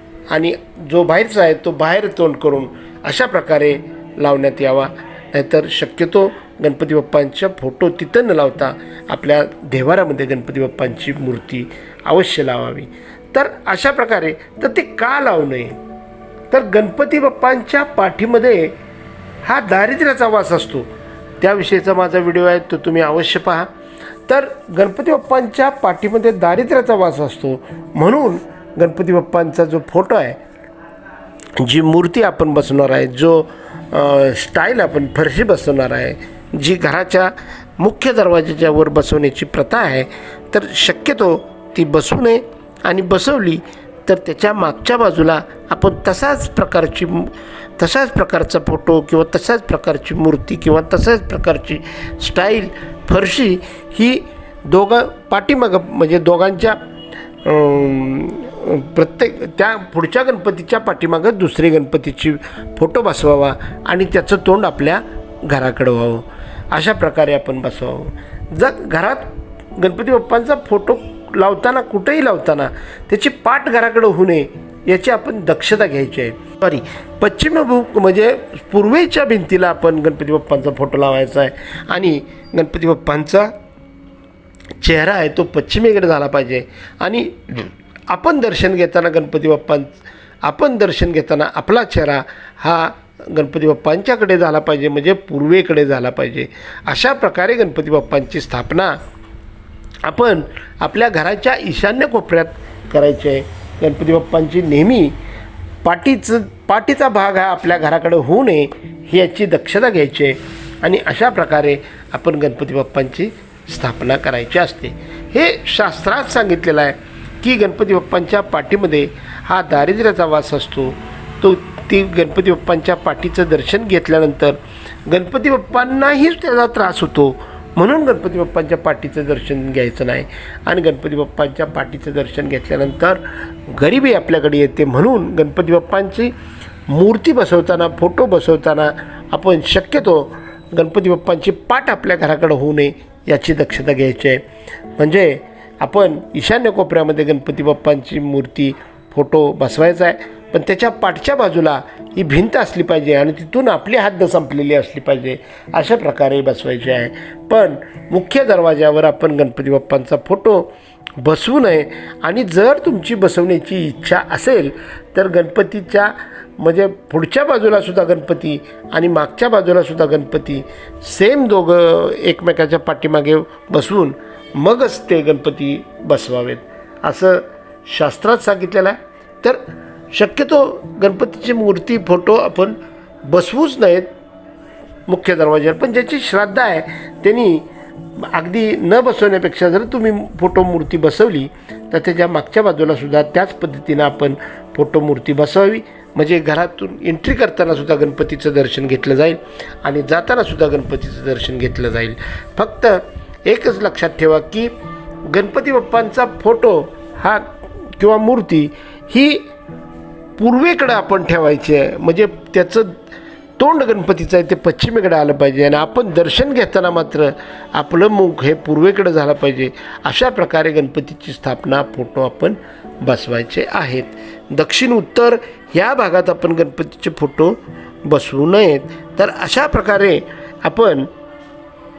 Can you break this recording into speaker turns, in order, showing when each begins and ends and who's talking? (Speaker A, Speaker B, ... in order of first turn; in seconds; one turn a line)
Speaker A: 0.3-15.8
Speaker A: 16.5-18.7
Speaker A: 19.4-20.9
Speaker A: 21.4-23.7
Speaker A: 24.3-30.4
Speaker A: 31.6-56.8
Speaker A: 57.4-83.5
Speaker A: 84.8-99.0
Speaker A: 100.0-105.2
Speaker A: 105.8-136.3
Speaker A: 136.9-144.4
Speaker A: 145.0-179.6
Speaker A: 180.1-184.1
Speaker A: 185.1-204.7
Speaker A: 205.3-209.5
Speaker A: 210.4-213.0
Speaker A: 213.6-231.1